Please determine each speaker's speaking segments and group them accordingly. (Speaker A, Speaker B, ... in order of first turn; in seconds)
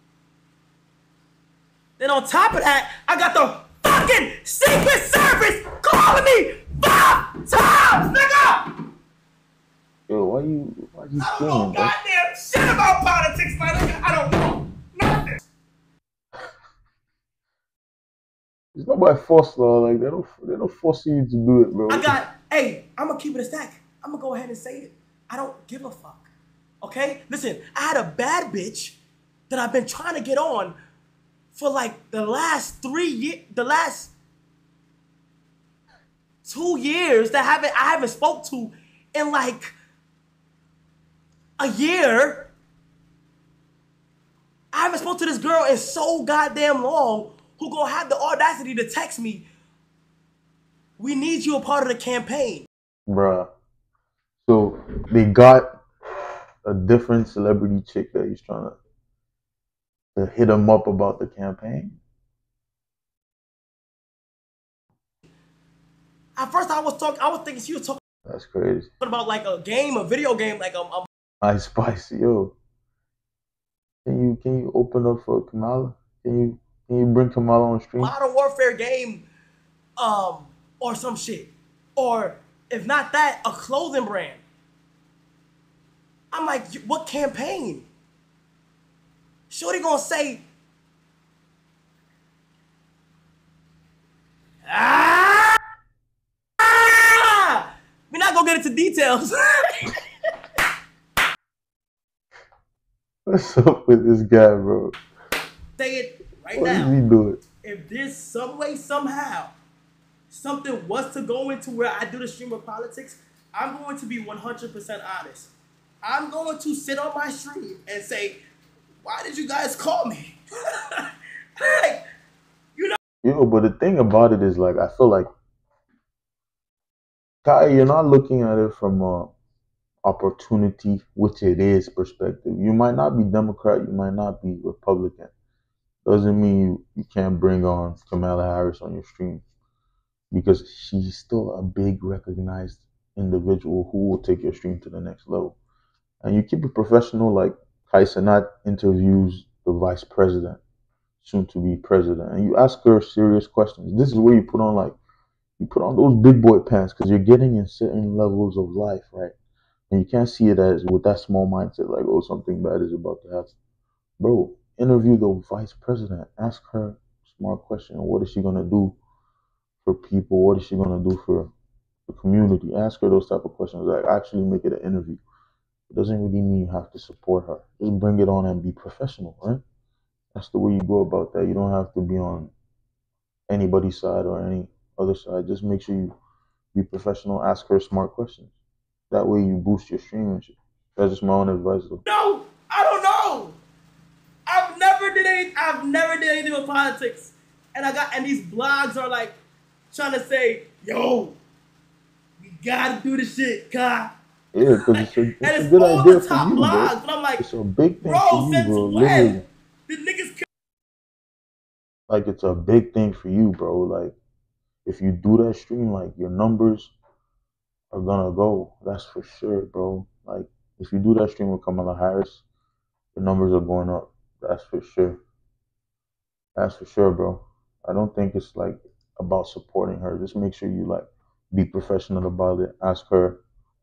Speaker A: 2.0-8.7, 11.2-15.4, 21.9-26.3, 26.8-29.0, 29.5-30.8, 31.5-34.1, 36.5-39.8, 41.6-42.5, 44.7-49.5, 51.0-52.7, 66.4-68.0, 69.0-71.1, 78.0-79.3, 80.0-84.4, 86.3-87.9, 89.5-90.4, 94.7-95.6, 96.6-100.0, 105.8-106.9, 107.6-109.5, 110.3-115.5, 116.0-118.4, 119.0-122.0, 192.1-193.6, 194.5-199.4, 199.9-201.4, 202.4-204.1, 204.7-207.4, 208.0-210.4
Speaker B: 10.1-11.9, 18.8-22.2, 53.1-53.5, 54.4-55.8, 56.6-58.8, 60.1-62.0, 68.3-68.9, 71.4-72.6, 74.0-78.1, 103.3-105.0, 106.5-107.4, 123.2-125.3, 127.4-129.3, 130.0-135.3, 136.0-139.4, 140.3-145.6, 146.2-150.6, 151.2-155.0, 155.6-159.3, 159.9-163.6, 164.2-169.0, 169.8-171.5, 172.1-175.2, 175.9-179.6, 180.3-182.5, 183.5-186.1, 186.7-188.5, 189.1-192.0, 204.5-209.4, 212.1-214.2, 214.8-216.9, 217.9-222.4, 223.2-225.2, 226.6-233.4